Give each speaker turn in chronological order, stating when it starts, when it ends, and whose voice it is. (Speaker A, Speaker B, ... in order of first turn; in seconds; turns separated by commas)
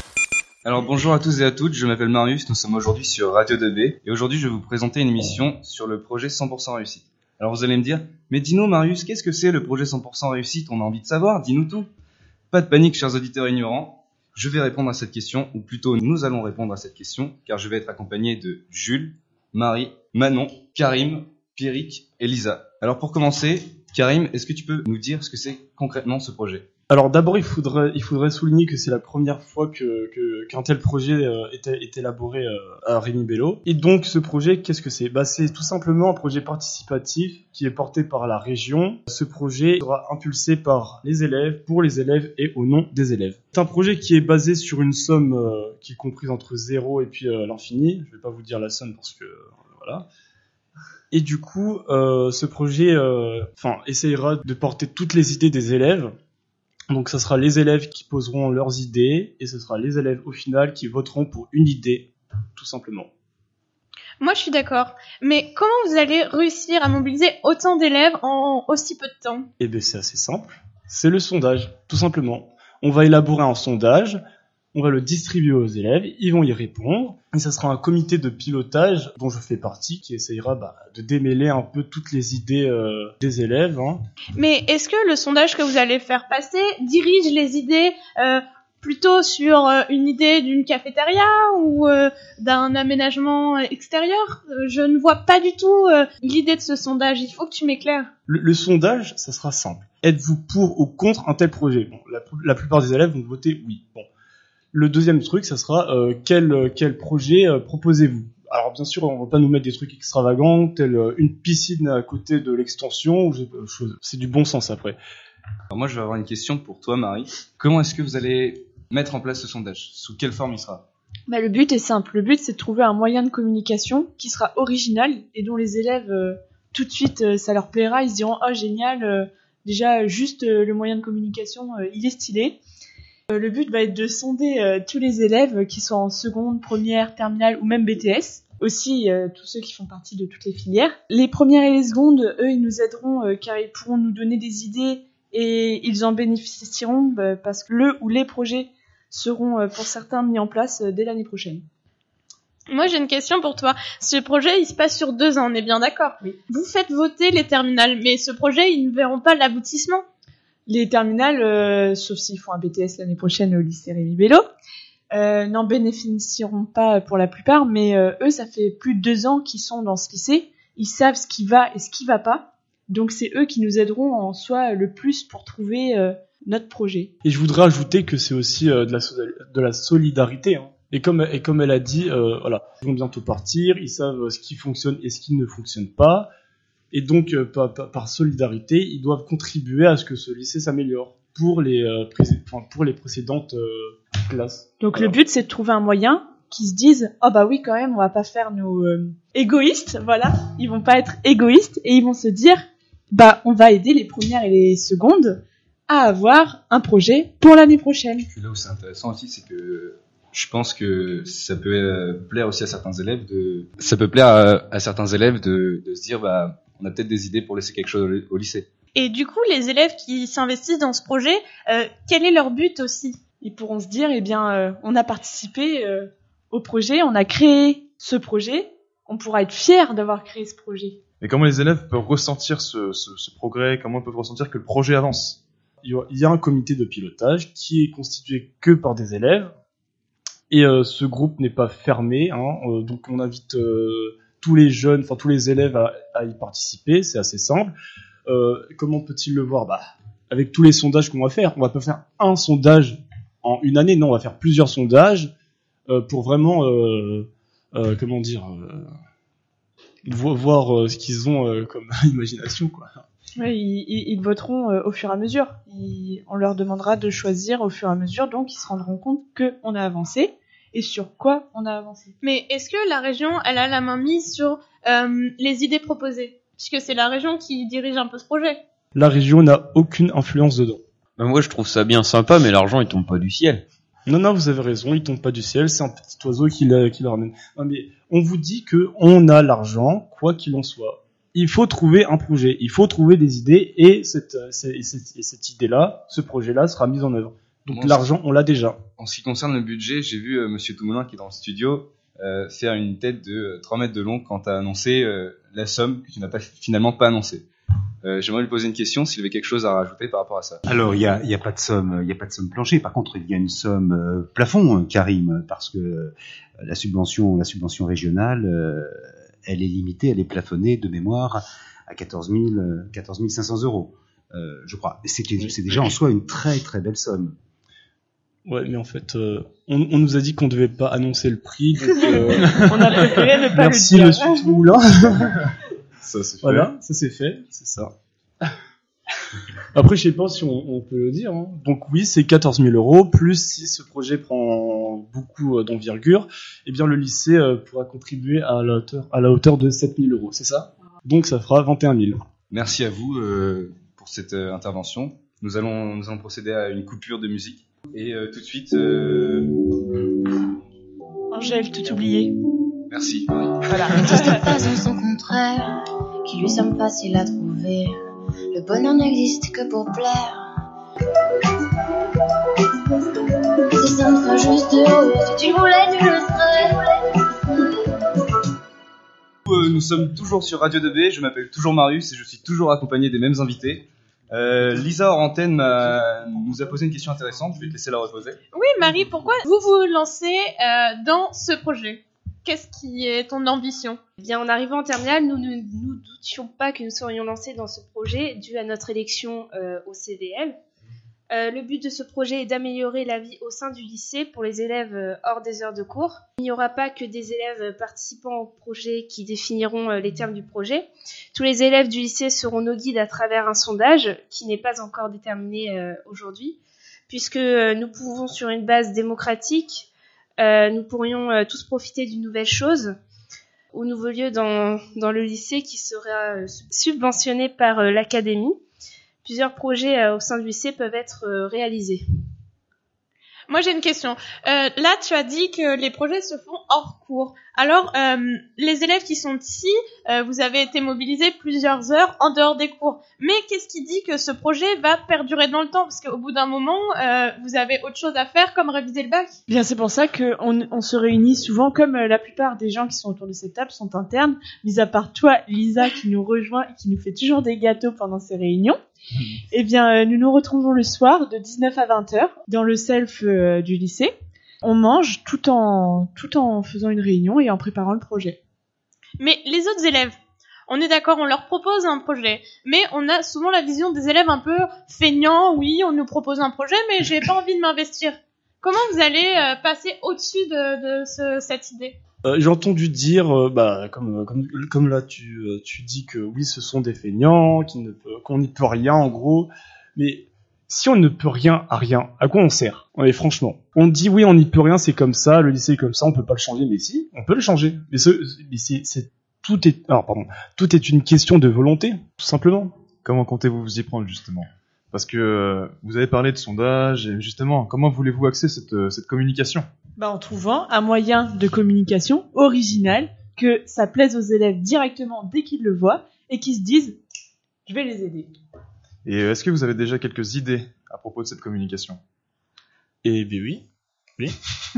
Speaker A: 0.6-11.9, Speaker A: 12.5-26.7, Speaker B: 26.9-50.0, Speaker B: 51.1-56.1, Speaker B: 56.9-63.1, Speaker C: 64.2-69.5, Speaker B: 69.6-74.2, Speaker B: 74.7-84.0, Speaker C: 84.3-98.1, Speaker B: 98.3-104.0, Speaker B: 104.7-115.0, Speaker A: 115.7-120.8, Speaker D: 121.3-132.6, Speaker D: 133.3-151.6, Speaker C: 152.7-160.0, Speaker D: 160.7-164.4, Speaker D: 165.1-177.1, Speaker B: 177.2-186.3, Speaker B: 186.9-195.2, Speaker D: 194.8-208.3, Speaker A: 208.3-218.7, Speaker C: 218.9-223.2, Speaker D: 223.4-231.0, Speaker E: 231.2-235.4, Speaker B: 235.8-239.5, Speaker B: 240.5-247.7, Speaker B: 248.3-255.3, Speaker B: 255.9-258.9, Speaker B: 260.1-263.0, Speaker D: 263.4-272.1, Speaker C: 272.2-278.6, Speaker B: 278.9-280.8, Speaker F: 281.2-283.6, Speaker B: 284.1-298.8, Speaker A: 297.7-298.1, Speaker A: 299.0-307.4, Speaker A: 308.0-310.6, Speaker G: 310.7-327.3, Speaker B: 328.4-335.2, Speaker D: 332.6-334.6, Speaker A: 336.0-336.7, Speaker B: 336.4-337.9, Speaker B: 339.7-352.2, Speaker A: 352.5-359.5, Speaker D: 361.3-362.3, Speaker A: 362.9-364.4, Speaker D: 363.7-364.4, Speaker H: 364.3-365.7, Speaker H: 366.2-367.9, Speaker H: 368.5-370.4, Speaker H: 373.8-377.1, Speaker A: 379.5-388.4, Speaker C: 388.5-394.0, Speaker I: 394.2-400.6, Speaker I: 401.3-416.6, Speaker I: 417.1-419.9, Speaker I: 420.4-422.9, Speaker I: 423.7-428.6, Speaker I: 429.2-432.0, Speaker C: 433.5-449.3, Speaker D: 449.5-458.8, Speaker D: 459.5-468.4, Speaker C: 469.2-470.1, Speaker C: 470.7-481.9, Speaker B: 482.2-502.7, Speaker E: 503.0-509.6, Speaker D: 510.0-517.0, Speaker D: 517.6-518.3, Speaker E: 519.0-522.0, Speaker B: 523.0-523.6